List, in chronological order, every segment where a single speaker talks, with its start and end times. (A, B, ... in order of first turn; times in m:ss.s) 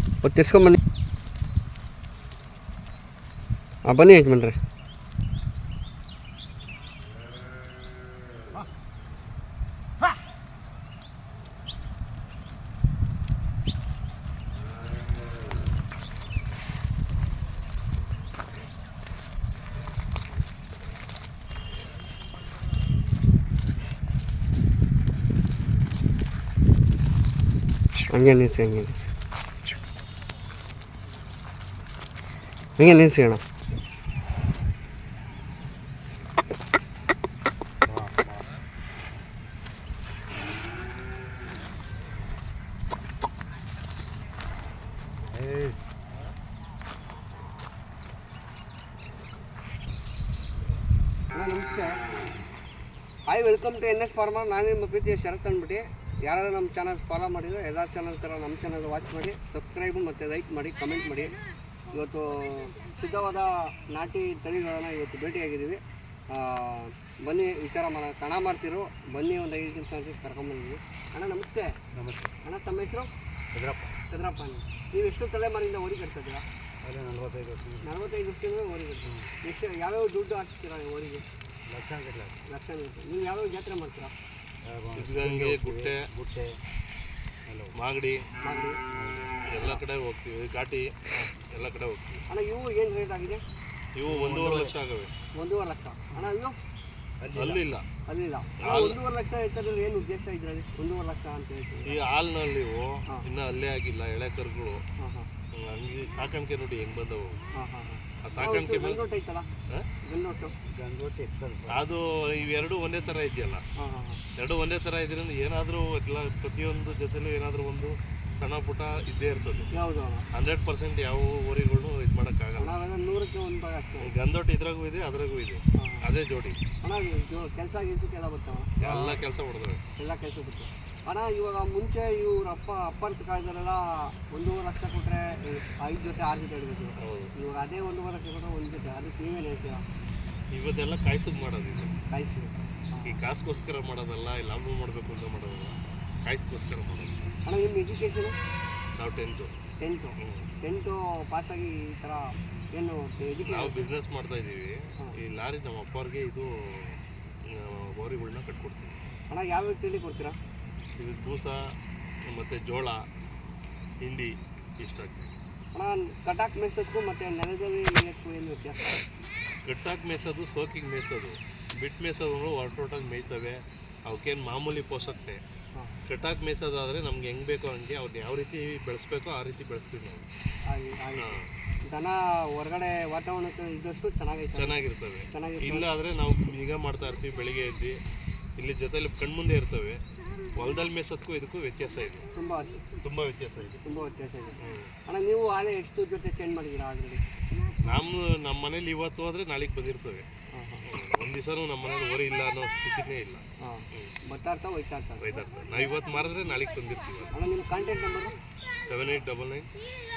0:00.2-0:00.8 A
0:03.8-0:04.6 A
0:28.1-0:29.0 A
0:32.8-0:33.4 A
0:37.9-0:38.4 B
0:45.2-0:45.8 B
0:51.3-0:52.0 A
0:53.3-1:01.4 A
1:01.9-1:11.8 A
1:11.9-1:12.3 B
1:12.4-1:13.1 A
1:13.5-1:14.0 B
1:14.1-1:16.5 A
1:16.8-1:17.9 B
1:17.8-1:21.3 A
1:21.7-1:22.4 B
1:22.5-1:24.1 A
1:24.6-1:26.6 B
1:24.9-1:26.1 C
1:27.5-1:27.8 B
1:27.7-1:28.2 C
1:28.4-1:28.8 A
1:28.9-1:29.4 B
1:29.5-1:32.2 C
1:32.3-1:33.4 A
1:34.0-1:35.1 C
1:34.1-1:34.7 B
1:35.4-1:36.6 A
1:37.2-1:37.6 B
1:37.3-1:37.9 C
1:38.1-1:42.0 A
1:38.6-1:39.0 C
1:41.8-1:44.8 C
1:45.0-1:45.3 A
1:45.5-1:47.4 C
1:47.6-1:49.5 A
1:48.2-1:49.0 C
1:50.0-1:50.5 A
1:50.6-1:51.8 B
1:51.7-1:53.6 C
1:53.8-1:54.2 A
1:54.4-1:59.7 C
1:59.7-2:00.2 A
2:00.3-2:02.8 C
2:02.6-2:04.1 A
2:04.0-2:06.6 C
2:05.8-2:06.1 A
2:06.8-2:08.8 A
2:08.8-2:09.8 C
2:10.0-2:19.8 A
2:17.0-2:17.3 C
2:20.6-2:22.0 C
2:22.1-2:23.2 A
2:23.0-2:27.3 C
2:27.5-2:28.4 A
2:29.0-2:29.5 C
2:29.8-2:33.8 A
2:30.2-2:30.5 C
2:33.4-2:39.0 C
2:39.3-2:40.4 A
2:41.0-2:41.7 C
2:42.3-2:43.1 C
2:44.0-2:45.3 C
2:45.7-2:49.0 A
2:49.6-2:55.4 C
2:56.1-3:00.3 C
3:00.7-3:04.8 A
3:01.2-3:01.5 C
3:04.6-3:08.0 C
3:05.3-3:05.8 A
3:08.6-3:10.0 C
3:10.5-3:12.3 C
3:12.4-3:12.8 A
3:13.0-3:13.8 C
3:13.8-3:17.2 A
3:14.6-3:14.9 C
3:17.8-3:20.3 C
3:20.5-3:20.9 A
3:20.9-3:24.2 C
3:23.6-3:25.3 A
3:25.2-3:27.4 C
3:27.3-3:28.4 A
3:28.8-3:29.7 C